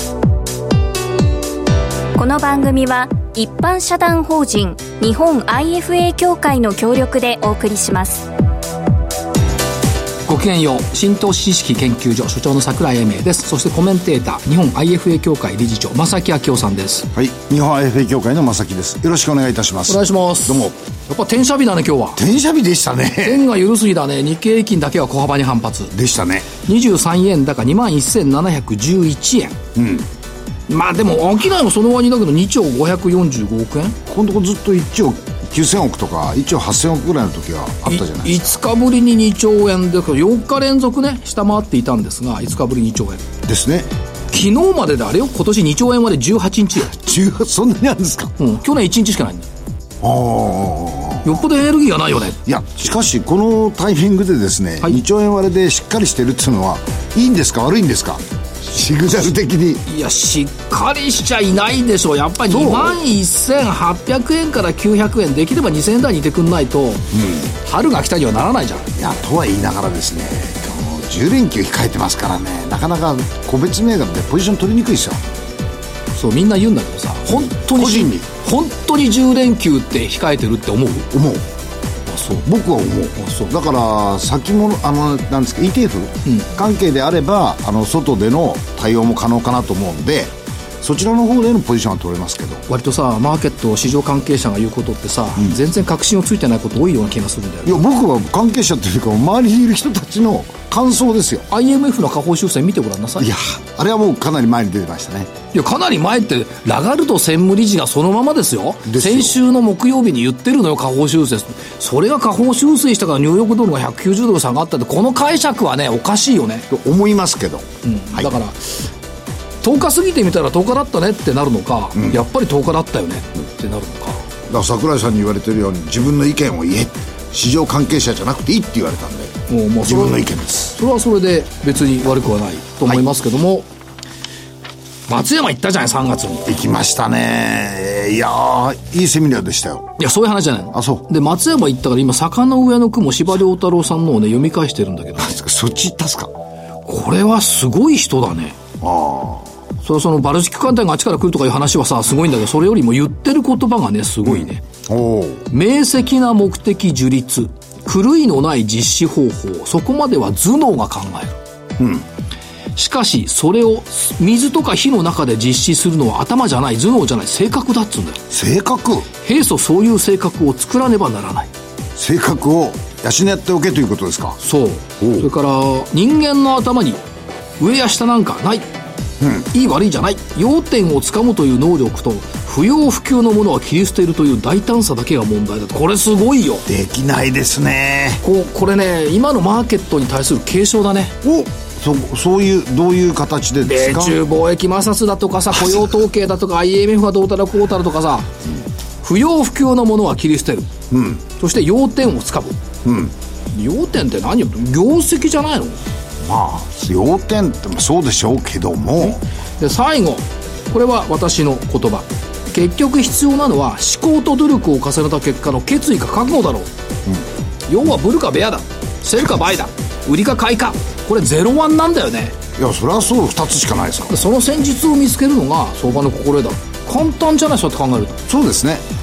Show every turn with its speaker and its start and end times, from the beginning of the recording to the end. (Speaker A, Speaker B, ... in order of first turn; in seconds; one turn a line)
Speaker A: 2.1-8.3
Speaker B: 10.3-17.1
Speaker C: 17.1-20.7
Speaker B: 19.9-22.2
Speaker C: 22.1-23.4
Speaker B: 23.2-25.9
Speaker C: 25.9-26.5
Speaker B: 26.6-29.6
Speaker C: 29.7-30.1
Speaker B: 30.7-34.0
Speaker C: 34.0-38.5
Speaker B: 37.9-43.3
Speaker C: 43.4-43.9
Speaker B: 44.3-46.9
Speaker C: 46.9-48.3
Speaker B: 48.4-49.5
Speaker C: 50.0-51.4
Speaker B: 51.2-52.4
Speaker C: 52.4-59.8
Speaker B: 59.8-68.9
Speaker C: 62.5-63.0
Speaker C: 67.1-67.5
Speaker C: 69.0-75.2
Speaker B: 76.1-81.1
Speaker C: 77.3-78.3
Speaker C: 81.1-81.5
Speaker B: 82.0-82.5
Speaker C: 82.4-92.6
Speaker B: 83.2-83.5
Speaker B: 92.7-97.8
Speaker C: 97.6-101.5
Speaker B: 101.5-103.3
Speaker C: 103.2-105.3
Speaker B: 105.5-116.7
Speaker C: 108.8-109.3
Speaker C: 116.7-118.3
Speaker B: 117.8-118.8
Speaker B: 119.6-124.2
Speaker C: 124.5-130.8
Speaker B: 129.5-133.7
Speaker B: 135.1-136.5
Speaker C: 136.4-139.9
Speaker B: 140.0-145.4
Speaker C: 140.7-141.1
Speaker C: 145.2-146.3
Speaker B: 146.8-148.6
Speaker C: 148.8-149.5
Speaker B: 149.8-154.6
Speaker C: 154.2-155.5
Speaker B: 155.5-161.4
Speaker C: 161.8-162.1
Speaker B: 162.8-168.2
Speaker C: 168.3-169.1
Speaker B: 169.2-171.5
Speaker C: 172.0-174.4
Speaker B: 174.4-177.0
Speaker C: 175.0-175.3
Speaker B: 177.6-178.7
Speaker C: 179.2-179.5
Speaker B: 179.5-186.6
Speaker C: 186.7-188.2
Speaker B: 188.2-191.2
Speaker C: 191.2-194.2
Speaker B: 193.6-198.3
Speaker B: 199.0-200.7
Speaker C: 200.9-201.2
Speaker B: 201.3-202.6
Speaker C: 202.8-203.1
Speaker B: 203.5-205.8
Speaker C: 206.2-209.2
Speaker B: 209.0-216.7
Speaker B: 217.7-222.4
Speaker C: 222.5-224.2
Speaker B: 224.1-228.2
Speaker C: 228.3-228.8